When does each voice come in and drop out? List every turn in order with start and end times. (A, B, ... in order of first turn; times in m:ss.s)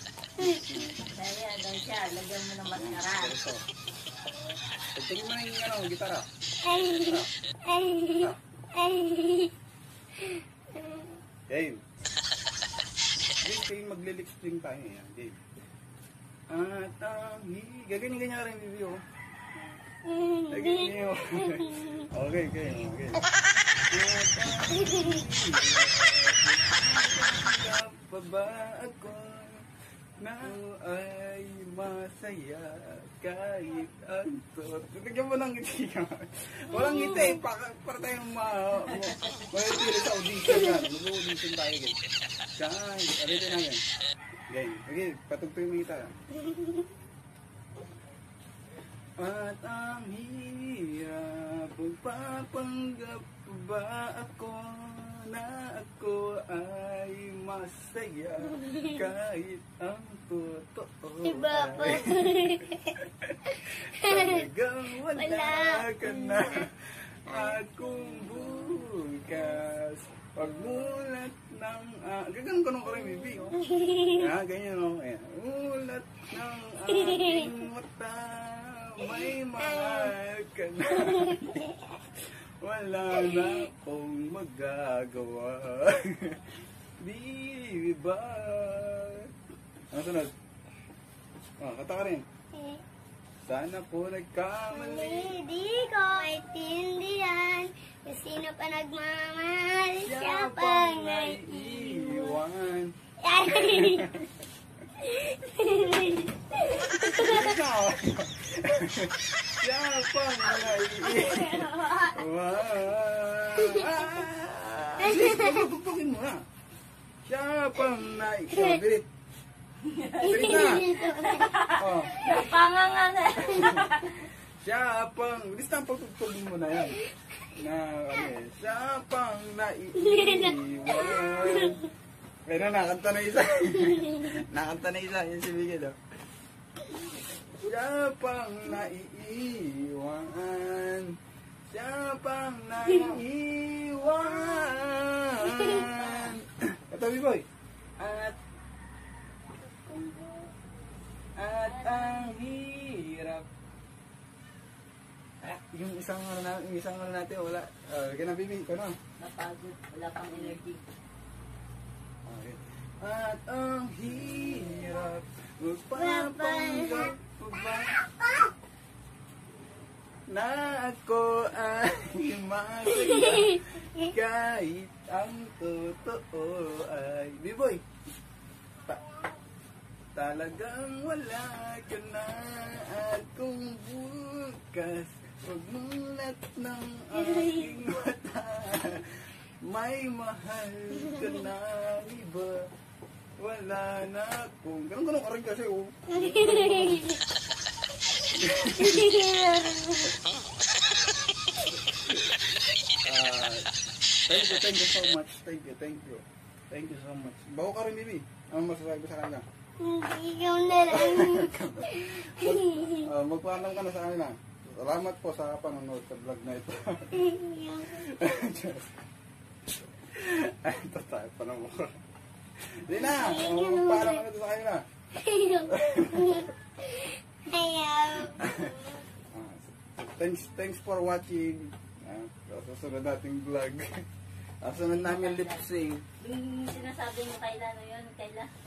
0:00.4-0:01.0 A
0:01.0-0:03.4 B
0:02.7-0:03.6 A
0:04.9-0:06.3 A
0:06.6-0:09.5 C
0:07.0-0:07.3 A
0:10.2-0:11.2 C
0:11.5-0:11.8 A
0:13.4-0:15.4 A
0:16.5-0:19.0 A
0:20.0-0:22.1 C
0:20.5-0:23.2 A
0:23.9-0:29.6 A
0:30.2-0:42.0 A
0:36.7-0:37.4 C
0:42.6-0:43.8 A
0:44.5-0:46.2 A
0:49.2-1:02.4 A
0:58.6-0:58.9 C
1:01.2-1:02.9 C
1:03.9-1:13.6 A
1:04.0-1:04.4 C
1:05.1-1:06.6 C
1:07.3-1:07.6 C
1:13.6-1:14.3 C
1:14.2-1:21.6 A
1:16.9-1:17.5 C
1:19.6-1:20.1 C
1:21.3-1:21.7 C
1:22.6-1:26.4 A
1:23.3-1:23.6 C
1:27.0-1:29.3 A
1:29.9-1:30.3 A
1:31.6-1:32.3 A
1:32.5-1:32.8 C
1:33.4-1:35.4 A
1:34.7-1:42.4 C
1:40.0-1:43.0 A
1:43.2-1:44.1 C
1:43.6-1:44.3 A
1:45.0-1:47.5 C
1:47.1-1:56.4 A
1:51.3-1:52.0 B
1:55.0-1:55.6 C
1:57.3-1:59.1 A
1:59.9-2:04.2 B
2:00.2-2:00.9 A
2:00.2-2:01.5 C
2:01.8-2:02.2 A
2:03.5-2:03.9 A
2:04.6-2:07.0 A
2:07.5-2:11.8 A
2:10.0-2:11.8 C
2:12.5-2:16.0 A
2:17.6-2:21.2 A
2:21.7-2:27.4 A
2:24.4-2:24.7 C
2:25.4-2:26.0 C
2:28.0-2:28.4 A
2:29.8-2:30.5 C
2:31.4-2:33.5 A
2:31.6-2:32.4 B
2:35.4-2:39.0 A
2:39.2-2:40.8 B
2:42.3-2:48.0 A
2:46.0-2:47.1 C
2:50.3-2:57.8 A
3:00.2-3:12.6 A
3:07.2-3:07.7 C
3:13.4-3:17.0 A
3:16.1-3:17.2 C
3:18.4-3:19.0 A
3:18.7-3:20.1 C
3:23.0-3:23.7 A
3:24.3-3:29.4 A
3:29.8-3:33.1 C
3:30.9-3:37.1 A
3:37.1-3:38.0 C
3:38.0-3:38.9 A
3:40.1-3:42.0 A
3:42.6-3:44.8 A
3:43.0-3:44.2 C
3:45.1-3:48.8 C
3:45.7-3:46.4 A
3:49.3-3:53.9 A
3:54.6-3:56.0 A
3:54.8-3:55.6 B
3:56.2-3:58.5 B